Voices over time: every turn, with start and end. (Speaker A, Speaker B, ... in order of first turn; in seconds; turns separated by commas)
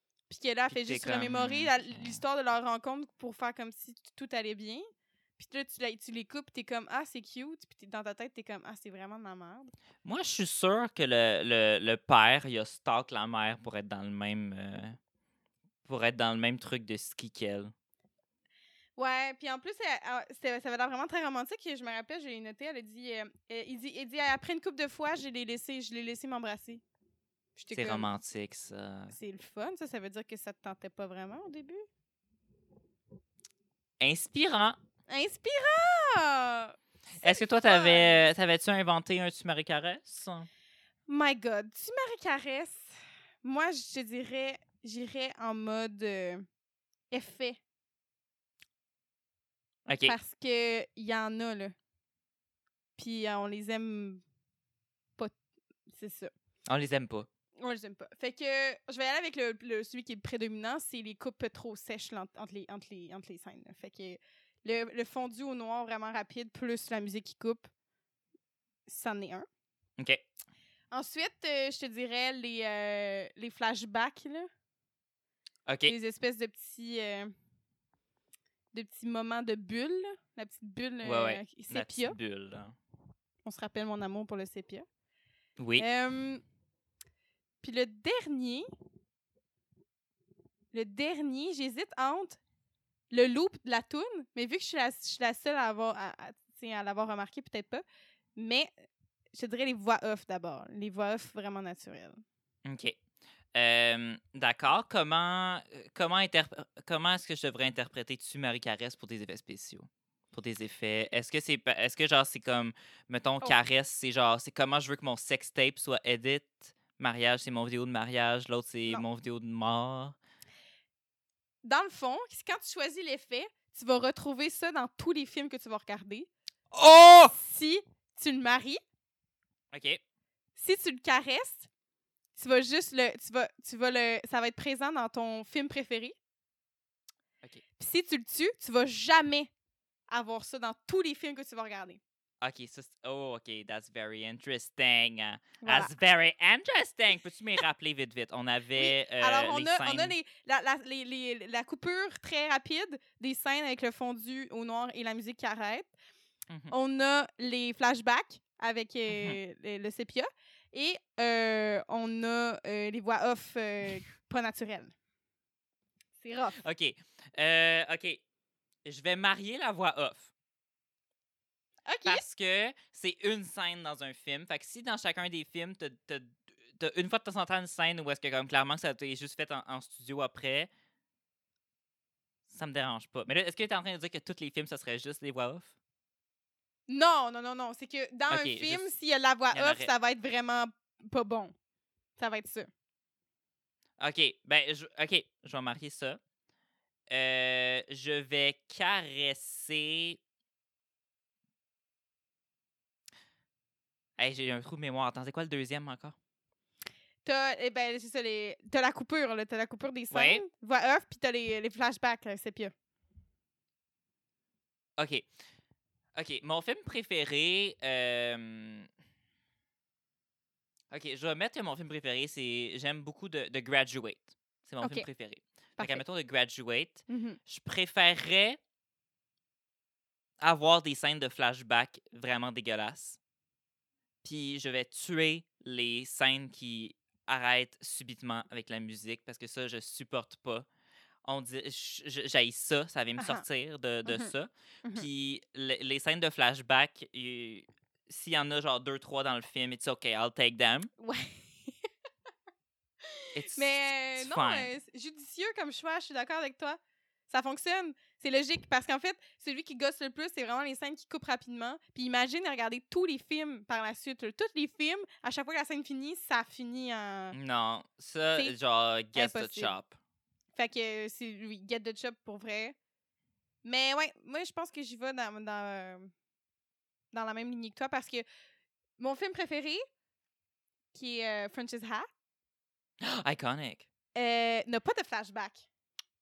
Speaker A: 0.3-4.9, Speaker B: 0.7-2.2, Speaker A: 5.4-9.7, Speaker B: 10.0-15.0, Speaker B: 15.8-17.7, Speaker A: 19.0-26.8, Speaker A: 27.6-28.1, Speaker B: 27.7-29.1, Speaker A: 29.1-31.8, Speaker B: 34.0-34.8, Speaker A: 35.1-38.2, Speaker B: 37.2-40.5, Speaker A: 41.1-46.5, Speaker A: 47.1-47.6, Speaker B: 49.9-50.1, Speaker A: 50.0-51.7, Speaker A: 53.0-54.2, Speaker A: 55.9-56.3, Speaker B: 56.7-57.3, Speaker A: 57.6-67.7, Speaker A: 68.9-69.5, Speaker B: 70.0-70.2, Speaker A: 70.9-74.5, Speaker B: 75.7-75.9, Speaker A: 75.9-77.3, Speaker A: 78.7-82.2, Speaker B: 81.0-82.7, Speaker A: 83.4-84.9, Speaker B: 85.6-85.8, Speaker A: 85.8-86.4, Speaker A: 87.6-88.7, Speaker A: 90.7-92.4, Speaker A: 93.1-97.8, Speaker A: 98.3-98.7, Speaker A: 99.3-102.2, Speaker B: 102.6-103.0, Speaker B: 103.5-120.2, Speaker A: 121.6-126.3, Speaker B: 126.7-127.3, Speaker A: 127.3-128.8, Speaker B: 129.7-130.0, Speaker A: 130.6-131.7, Speaker A: 132.3-136.1, Speaker A: 137.8-139.5, Speaker A: 140.1-142.0, Speaker B: 142.4-150.1, Speaker A: 145.6-145.9, Speaker A: 148.8-155.9, Speaker B: 156.5-156.7, Speaker A: 156.7-164.9, Speaker B: 159.1-159.4, Speaker A: 166.2-166.6, Speaker B: 166.6-168.2, Speaker B: 168.8-170.3, Speaker A: 171.9-172.2, Speaker B: 172.1-180.7, Speaker B: 182.5-185.7, Speaker A: 186.9-191.5, Speaker B: 188.3-188.9, Speaker B: 189.5-189.9, Speaker A: 192.2-192.7, Speaker B: 194.0-196.2, Speaker B: 197.1-200.2, Speaker B: 204.2-206.1, Speaker A: 207.2-212.7, Speaker B: 210.1-210.4, Speaker B: 215.0-215.3, Speaker B: 216.1-218.9, Speaker B: 220.9-228.6, Speaker A: 224.8-225.1, Speaker A: 225.8-226.0, Speaker A: 227.1-227.4, Speaker B: 230.4-233.2, Speaker B: 234.2-240.7, Speaker B: 241.2-250.9, Speaker A: 243.2-243.4, Speaker A: 244.0-244.3, Speaker A: 251.0-251.7, Speaker A: 253.1-267.4, Speaker B: 253.3-254.7, Speaker B: 267.3-270.0, Speaker A: 269.1-269.7, Speaker A: 270.5-272.8, Speaker A: 273.6-276.1, Speaker A: 277.1-278.2, Speaker A: 279.0-279.8, Speaker A: 280.9-282.1, Speaker B: 283.0-283.8, Speaker A: 284.1-285.6